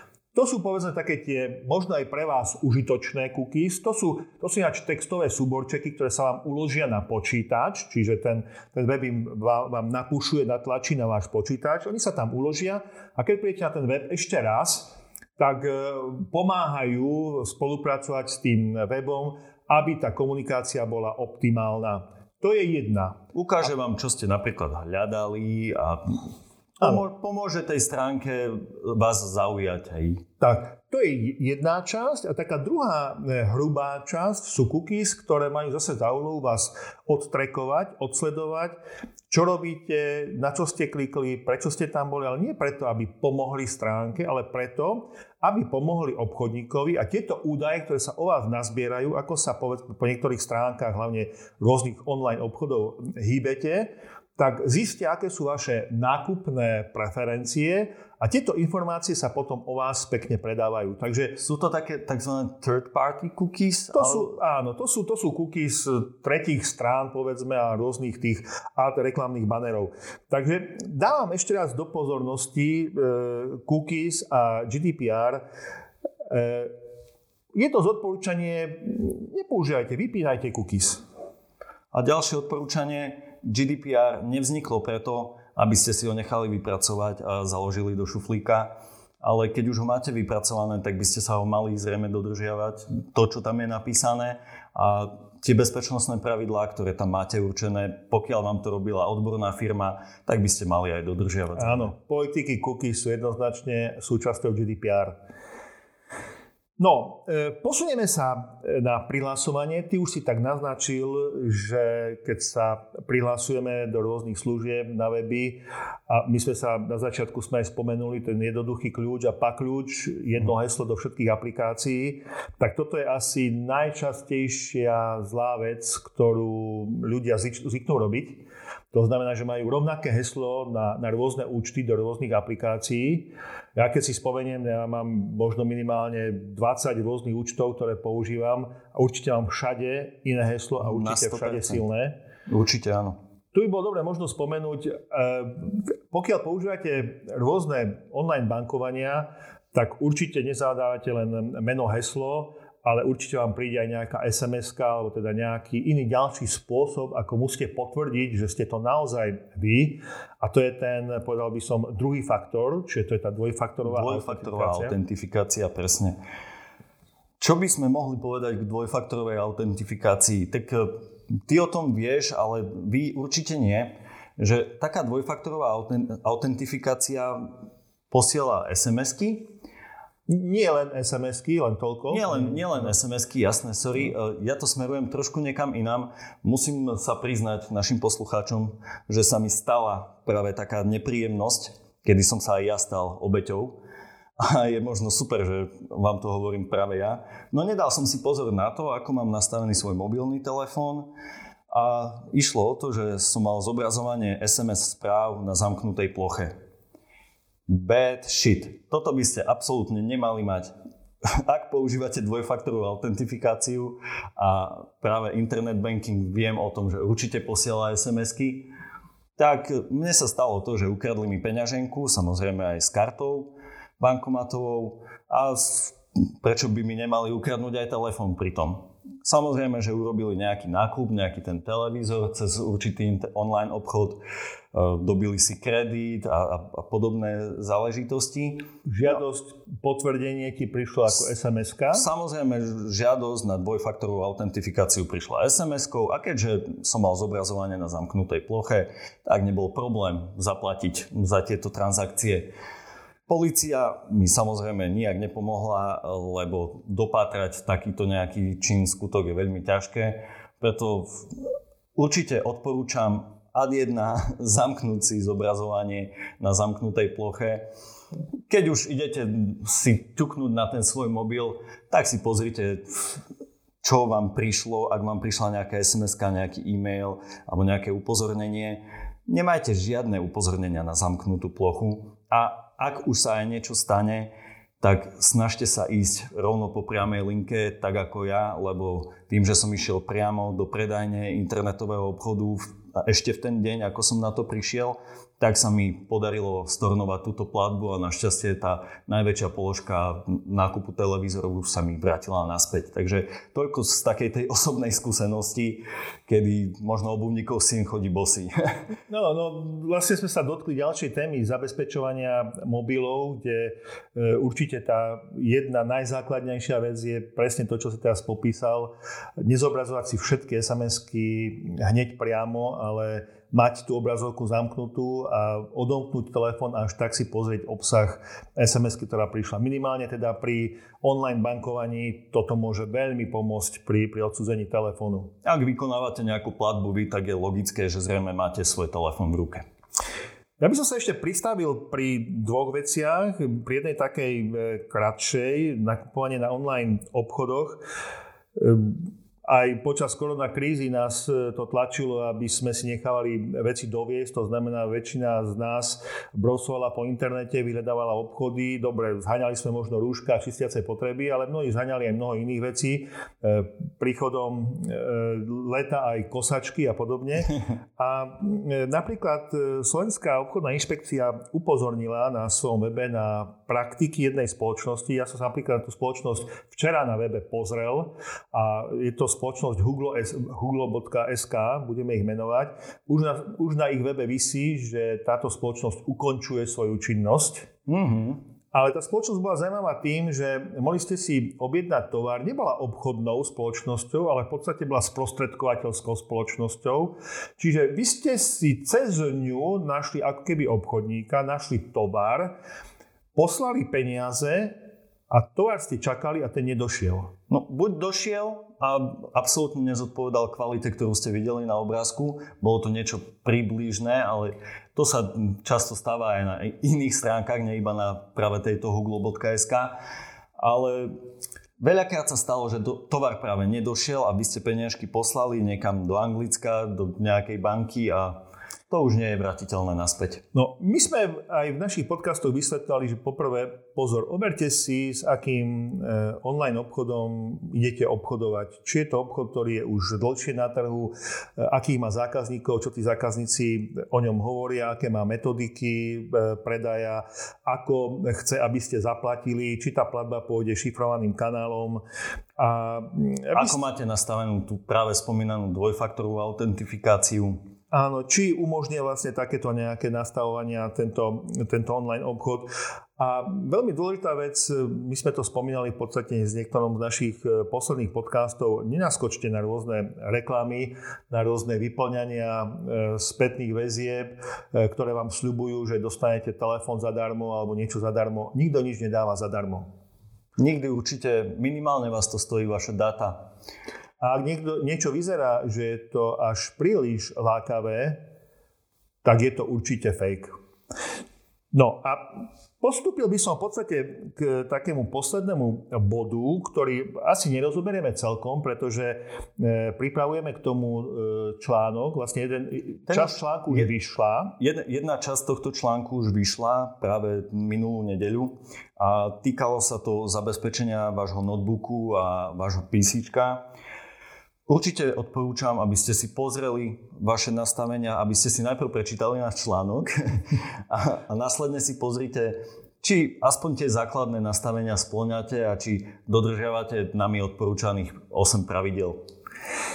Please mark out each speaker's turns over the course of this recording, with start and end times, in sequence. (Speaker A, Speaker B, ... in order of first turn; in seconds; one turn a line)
Speaker A: 0.3-23.2
Speaker B: 23.3-26.2
Speaker B: 26.8-30.2
Speaker A: 30.4-38.8
Speaker A: 39.3-61.4
Speaker B: 61.4-64.3
Speaker A: 63.9-75.4
Speaker A: 76.3-76.7
Speaker A: 77.5-81.0
Speaker B: 81.9-101.9
Speaker A: 101.5-105.2
Speaker A: 106.8-142.2
Speaker B: 140.8-141.8
Speaker B: 142.5-143.2
Speaker A: 143.5-165.0
Speaker B: 163.8-166.2
Speaker B: 167.4-170.9
Speaker B: 171.5-177.5
Speaker B: 178.1-179.5
Speaker A: 180.3-182.9
Speaker B: 182.1-193.8
Speaker B: 194.4-201.1
Speaker B: 201.7-206.5
Speaker B: 207.7-210.7
Speaker B: 211.3-218.7
Speaker B: 219.4-234.2
Speaker B: 234.7-238.7
Speaker A: 238.9-242.1
Speaker B: 241.9-252.5
Speaker B: 253.3-261.2
Speaker B: 262.0-267.6
Speaker B: 268.5-273.2
Speaker B: 273.8-284.3
Speaker B: 284.8-308.5
Speaker A: 309.1-335.3
Speaker B: 335.4-339.6
Speaker A: 340.6-347.8
Speaker A: 348.6-387.7
Speaker B: 387.9-388.4
Speaker A: 388.7-402.5
Speaker A: 403.4-404.8
Speaker A: 405.3-407.3
Speaker B: 407.5-419.9
Speaker B: 420.6-421.1
Speaker B: 421.8-430.4
Speaker A: 430.5-452.0
Speaker A: 452.6-453.8
Speaker B: 453.5-457.6
Speaker A: 457.9-479.9
Speaker B: 480.6-483.5
Speaker A: 484.2-488.2
Speaker A: 489.2-490.5
Speaker A: 491.7-504.6
Speaker B: 503.1-503.9
Speaker B: 504.6-513.6
Speaker B: 514.7-529.2